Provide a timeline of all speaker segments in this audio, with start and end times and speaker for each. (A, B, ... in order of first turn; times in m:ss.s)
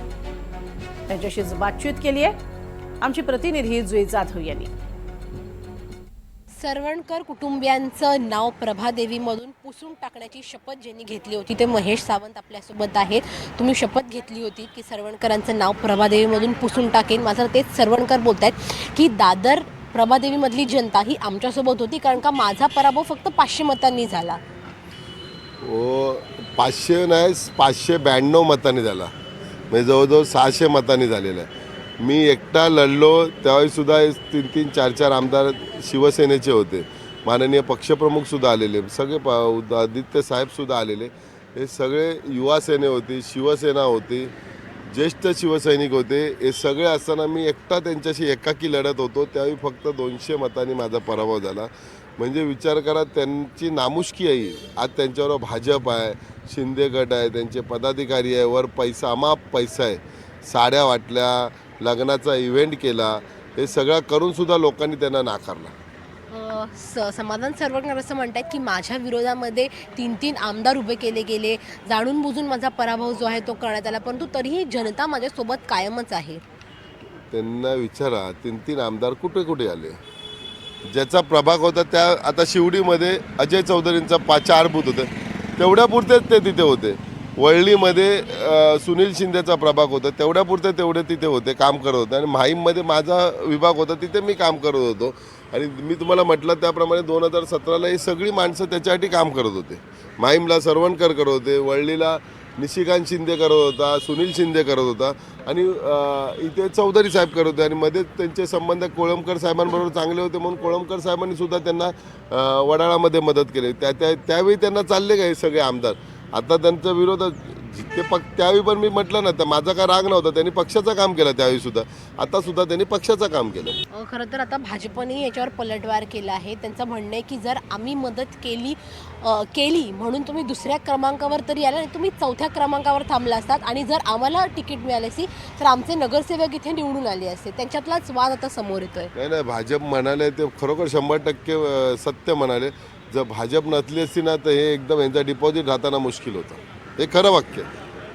0:01.1-0:02.3 A
0:03.0-0:04.7 A
0:06.6-0:24.4 B
0:25.6-0:29.1 C
0:29.7-0:31.5 C
0:32.0-0:44.3 C
0:44.9-1:05.7 C
1:06.3-1:16.4 B
1:17.3-1:20.0 C
1:20.8-2:03.8 C
2:03.9-2:19.1 B
2:19.1-2:27.7 C